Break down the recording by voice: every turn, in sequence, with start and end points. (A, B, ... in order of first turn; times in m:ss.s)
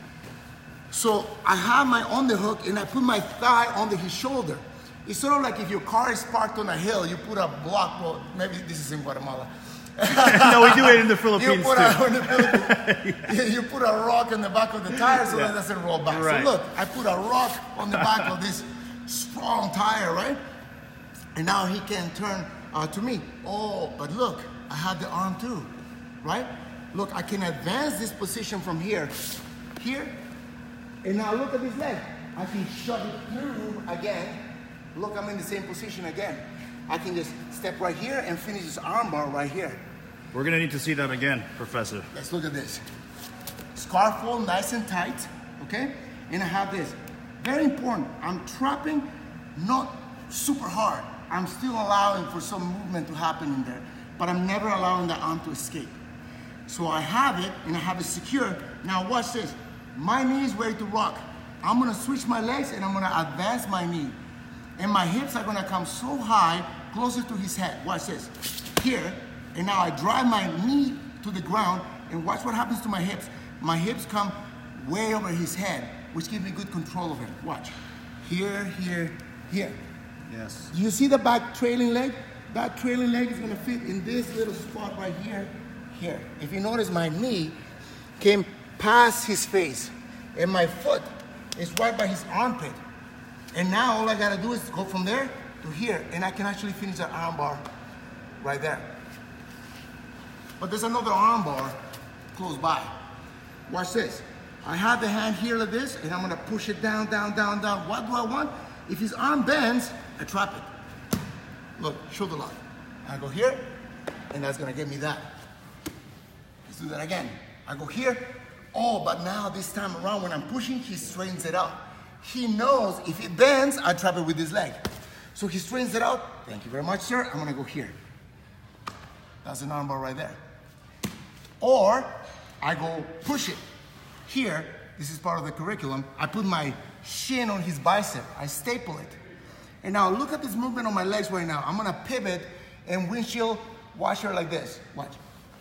0:00.9-0:20.4 A
0:10.1-0:13.3 B
0:15.1-0:15.5 B
0:16.1-0:16.5 B
0:21.3-0:25.7 A
0:26.2-0:29.2 A
0:29.8-0:30.1 A
0:31.0-0:34.4 A
0:34.9-0:39.8 A
0:40.3-0:42.1 B
0:42.1-0:42.8 A
0:43.7-0:56.0 A
0:56.7-1:04.2 A
1:04.8-1:17.7 A
1:18.2-1:19.8 A
1:20.3-1:20.7 B
1:20.7-1:27.6 A
1:28.2-1:32.8 A
1:33.5-1:37.6 A
1:38.4-1:39.0 A
1:40.6-1:41.7 A
1:42.3-1:42.9 A
1:43.7-1:50.7 A
1:51.8-1:53.7 A
1:54.3-1:55.4 A
1:56.7-2:04.8 A
2:05.3-2:08.0 A
2:09.4-2:10.4 A
2:11.6-2:13.6 A
2:14.3-2:19.2 A
2:19.8-2:25.2 A